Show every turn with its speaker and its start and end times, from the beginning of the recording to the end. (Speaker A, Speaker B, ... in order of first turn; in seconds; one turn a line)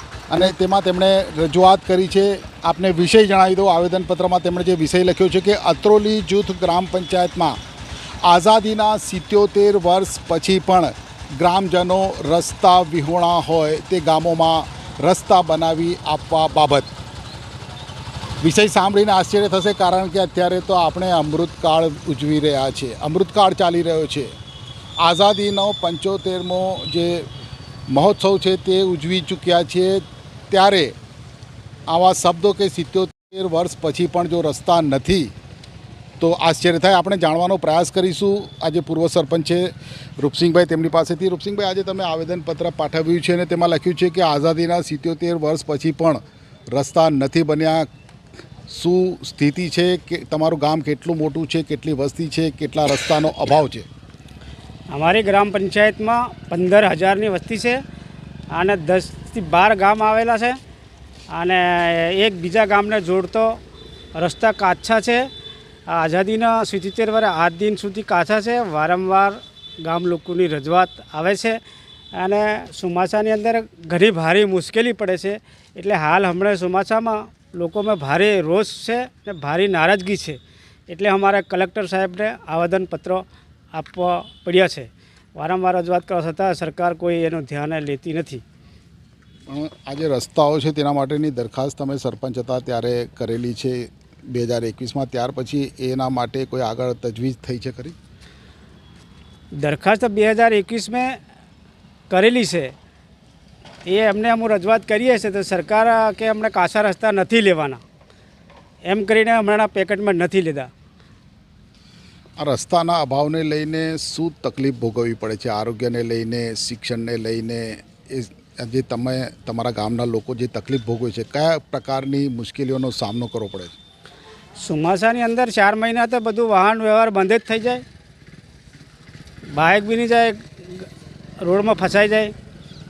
Speaker A: 0.3-7.6
Speaker A: 8.2-16.9
Speaker A: 18.4-24.3
Speaker A: 25.0-27.3
Speaker A: 27.9-30.9
Speaker A: 31.9-35.3
Speaker A: 36.2-46.2
Speaker A: 46.7-47.9
Speaker A: 48.7-53.9
Speaker B: 54.9-57.8
Speaker B: 58.5-60.6
Speaker B: 61.3-63.6
Speaker B: 64.2-65.3
Speaker B: 65.9-71.6
Speaker B: 72.1-88.4
Speaker A: 89.5-98.0
Speaker B: 99.6-101.2
Speaker B: 102.1-102.7
Speaker B: 103.8-107.8
Speaker B: 108.8-110.7
Speaker A: 112.4-123.7
Speaker B: 124.6-127.8
Speaker B: 129.5-130.9
Speaker B: 131.4-132.3